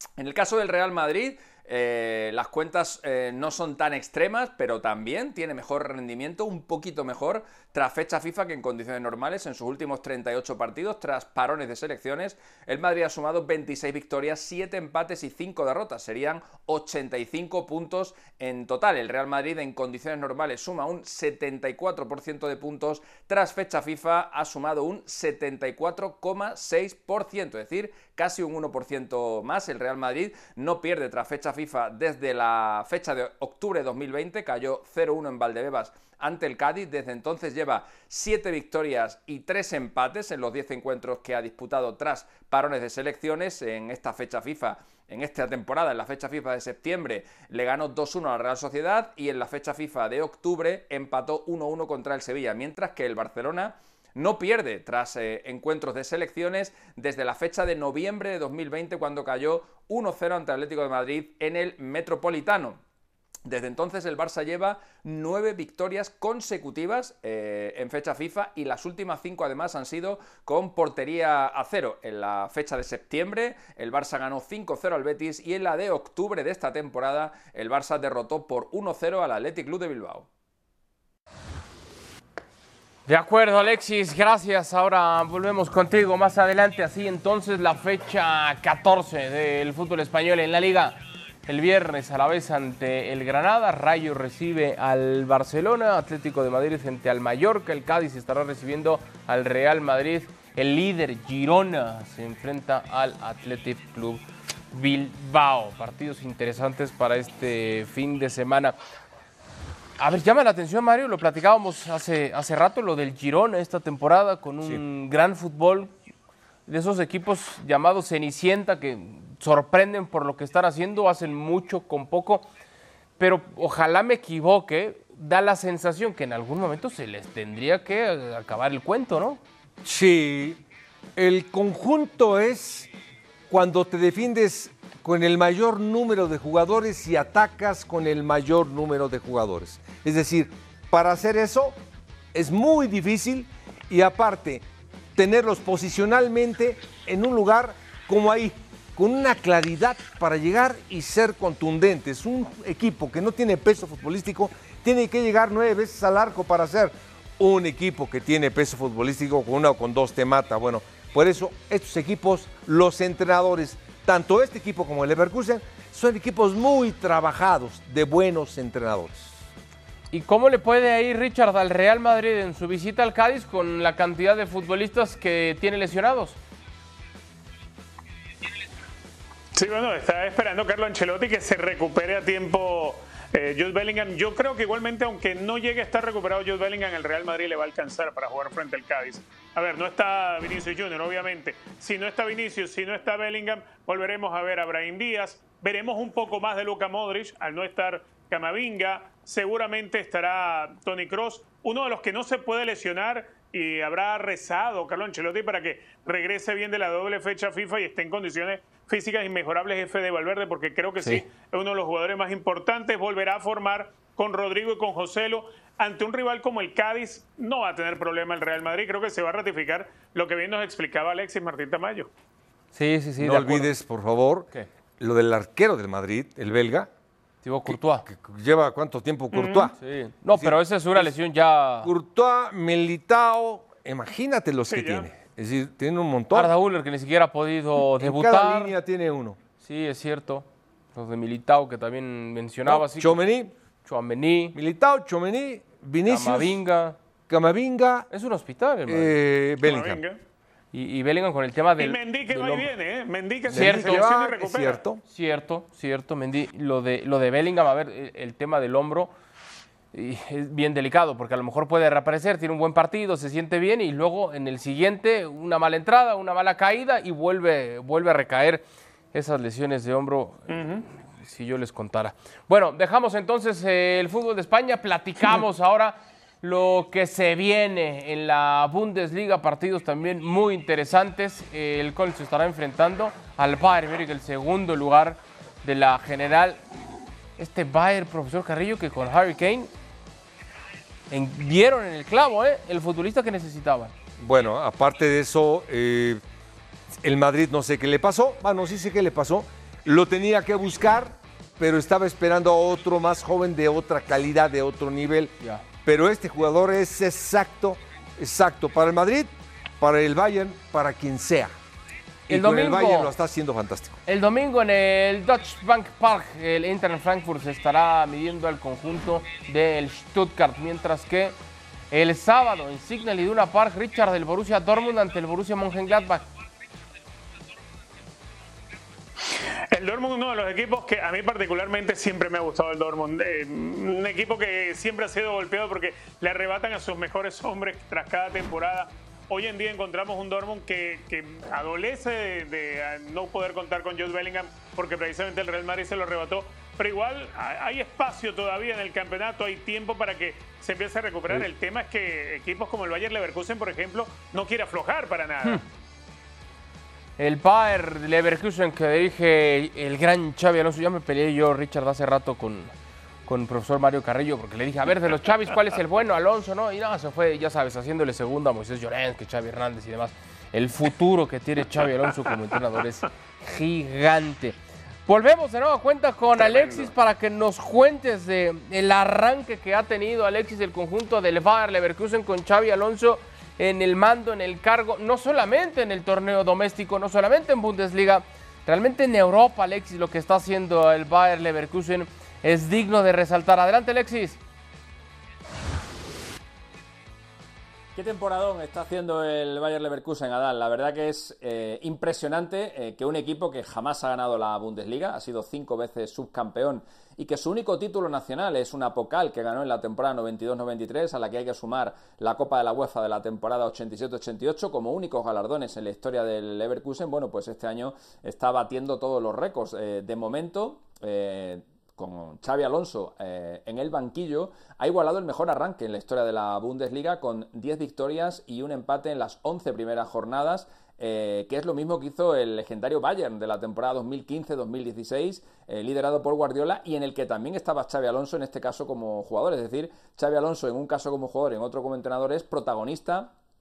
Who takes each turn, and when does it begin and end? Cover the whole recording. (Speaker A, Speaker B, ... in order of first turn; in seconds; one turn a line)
Speaker A: 0.2-62.8
Speaker A: 63.5-80.3
Speaker B: 83.1-108.8
Speaker B: 110.0-115.9
Speaker B: 116.7-122.5
Speaker B: 123.2-129.4
Speaker C: 129.8-130.6
Speaker C: 131.2-132.9
Speaker C: 133.5-141.8
Speaker C: 142.3-169.4
Speaker B: 170.1-176.4
Speaker D: 179.5-222.1
Speaker B: 222.7-223.7
Speaker C: 223.2-226.9
Speaker B: 227.4-228.1
Speaker C: 227.7-229.8
Speaker D: 229.3-229.7
Speaker B: 229.8-231.9
Speaker C: 230.3-231.1
Speaker C: 231.8-236.5
Speaker D: 234.7-235.1
Speaker B: 236.3-238.8
Speaker C: 238.0-239.4
Speaker B: 239.6-243.2
Speaker C: 242.7-243.5
Speaker B: 243.8-244.6
Speaker C: 244.6-246.6
Speaker B: 246.1-247.0
Speaker C: 247.3-248.1
Speaker B: 248.1-249.2
Speaker C: 248.9-250.0
Speaker D: 249.6-250.2
Speaker B: 250.7-252.7
Speaker D: 251.8-254.8
Speaker C: 253.5-255.0
Speaker B: 253.5-254.1
Speaker B: 255.1-259.1
Speaker B: 259.9-270.5
Speaker D: 270.5-270.9
Speaker B: 271.1-286.6
Speaker B: 287.4-289.7
Speaker B: 291.1-293.9
Speaker C: 294.2-296.2
Speaker C: 297.0-311.5
Speaker C: 312.3-314.0
Speaker B: 312.3-313.1
Speaker B: 314.1-321.4
Speaker B: 321.9-326.2
Speaker D: 329.7-355.6
Speaker B: 357.2-362.7
Speaker B: 363.3-394.4
Speaker D: 376.4-376.9
Speaker A: 397.9-443.3